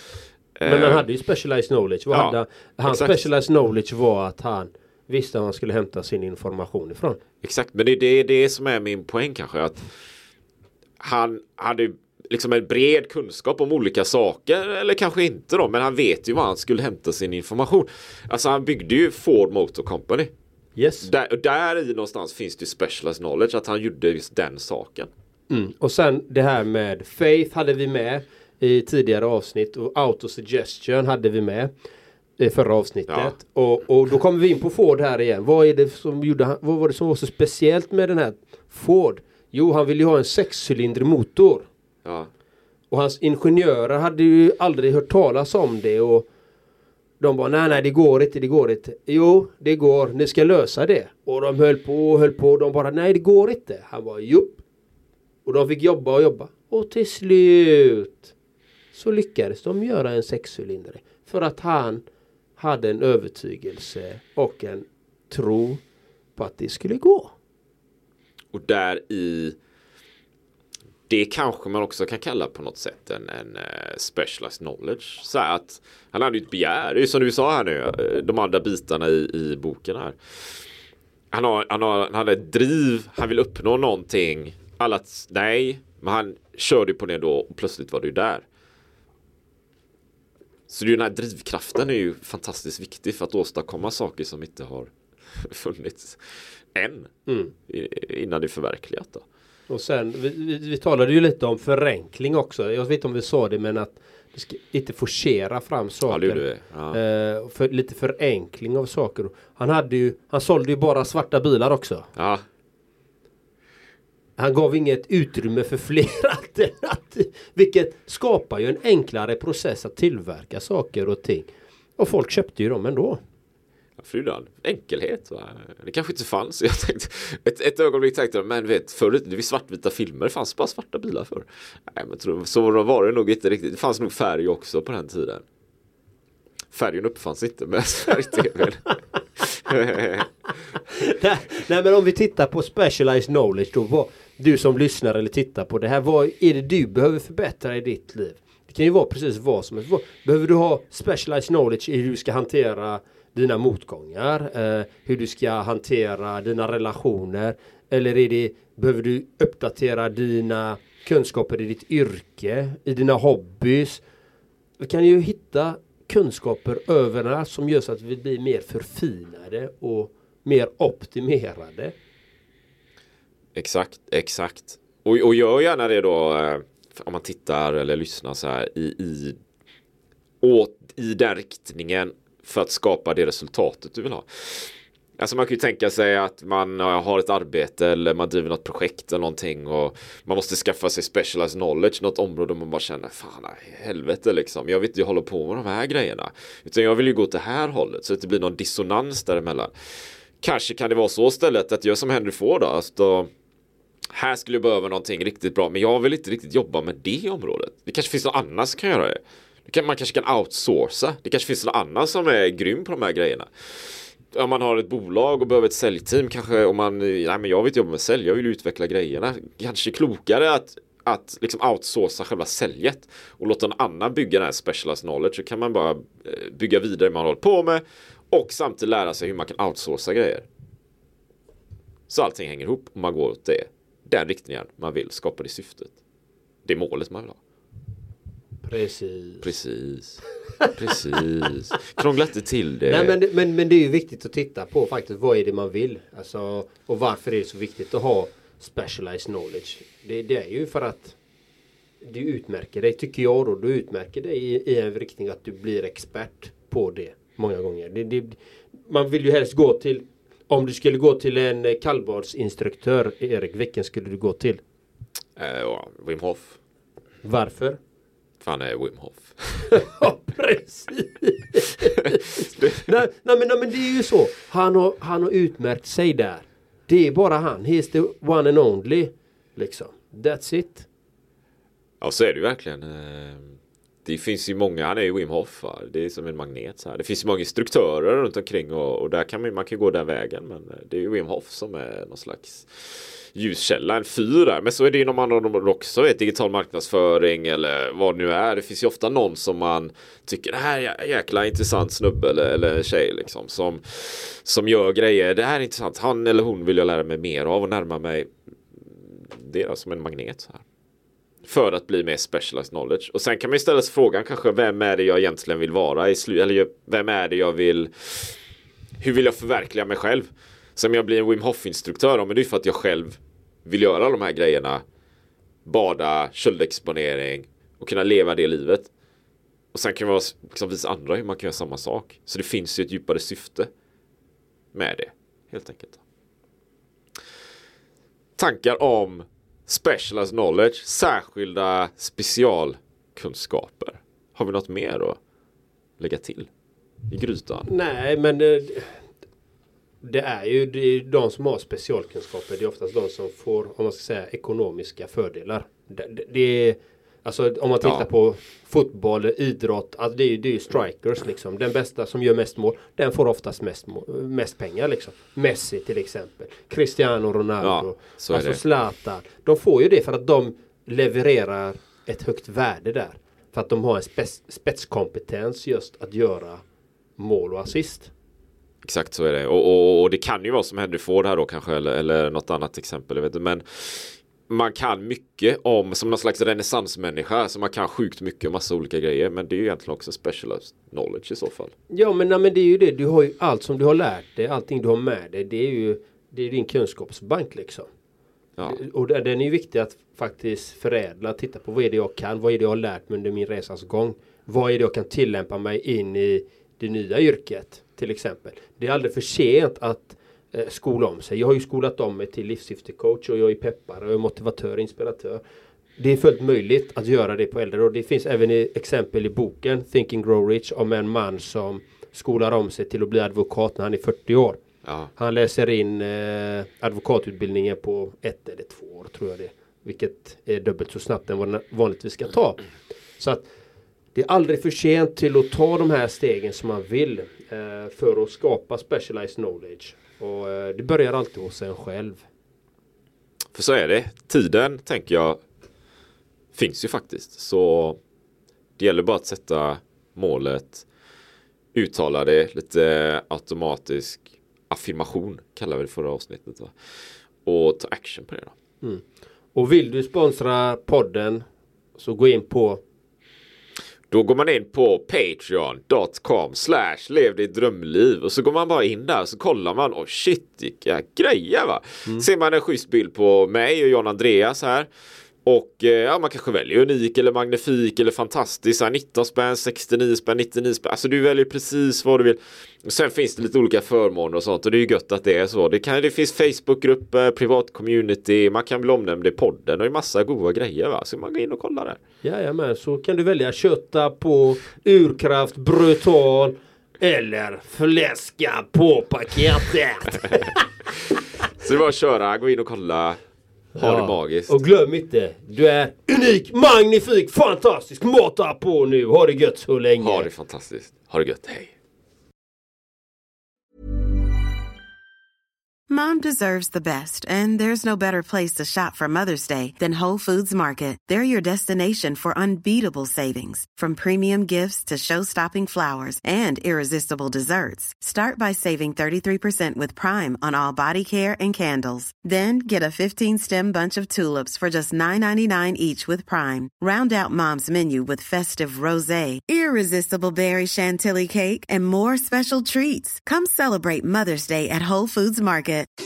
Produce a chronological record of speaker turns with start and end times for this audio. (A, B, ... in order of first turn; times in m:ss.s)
0:00.6-0:01.0 A
0:00.6-0:07.2 B
0:02.1-0:03.2 A
0:07.4-0:09.8 A
0:11.0-0:20.3 A
0:20.8-0:21.1 B
0:21.0-0:25.1 A
0:25.5-0:31.7 B
0:32.4-0:41.7 B
0:33.1-0:33.3 A
0:42.9-0:46.3 B
0:47.2-0:54.6 B
0:55.4-0:58.3 B
0:58.9-1:02.0 B
1:02.6-1:05.8 B
1:06.4-1:07.3 B
1:08.5-1:09.6 A
1:11.1-1:20.6 A
1:21.3-1:28.4 A
1:30.7-1:37.1 A
1:37.3-1:37.5 B
1:37.7-1:39.2 A
1:39.7-1:52.1 B
1:46.1-1:47.0 A
1:52.2-1:52.4 A
1:54.4-2:03.2 B
2:04.0-2:15.4 A
2:16.7-2:20.2 A
2:21.1-2:44.0 B
2:44.8-2:51.9 B
2:53.6-2:59.4 A
3:00.4-3:19.7 A
3:20.4-3:23.3 A
3:24.1-3:50.4 A
3:52.1-3:55.9 A
3:56.6-3:57.4 A
3:58.6-3:59.5 B
3:59.4-4:00.2 A
4:00.7-4:03.2 A
4:02.9-4:11.2 B
4:12.0-4:24.6 B
4:25.4-4:26.6 A
4:27.2-4:27.8 B
4:28.4-4:29.8 A
4:29.7-4:40.8 B
4:42.0-5:10.6 A
5:11.4-5:18.4 A
5:19.0-5:24.8 A
5:25.6-5:28.9 A
5:29.7-5:33.7 A
5:34.7-5:36.0 A
5:38.4-5:45.2 A
5:46.0-5:46.5 A
5:47.1-5:47.7 A
5:47.6-5:49.0 B
5:50.0-6:16.6 B
6:07.6-6:08.6 A
6:17.2-6:18.1 B
6:18.8-6:31.7 A
6:31.9-6:37.9 B
6:38.6-6:38.8 A
6:38.6-6:55.4 B
6:56.0-7:04.6 B
7:04.8-7:05.1 A
7:05.2-7:12.6 B
7:13.2-7:13.5 B
7:14.1-7:22.2 B
7:23.5-7:25.4 A
7:26.5-7:28.0 A
7:28.8-7:30.8 A
7:31.7-7:36.7 A
7:37.4-7:38.5 A
7:39.5-7:41.4 B
7:42.0-7:42.8 B
7:44.1-7:54.9 A
7:55.4-8:12.0 A
8:12.2-8:20.6 B
8:21.6-8:23.2 A
8:23.8-8:24.6 A
8:23.8-8:30.3 B
8:30.0-8:31.7 A
8:35.9-9:05.9 C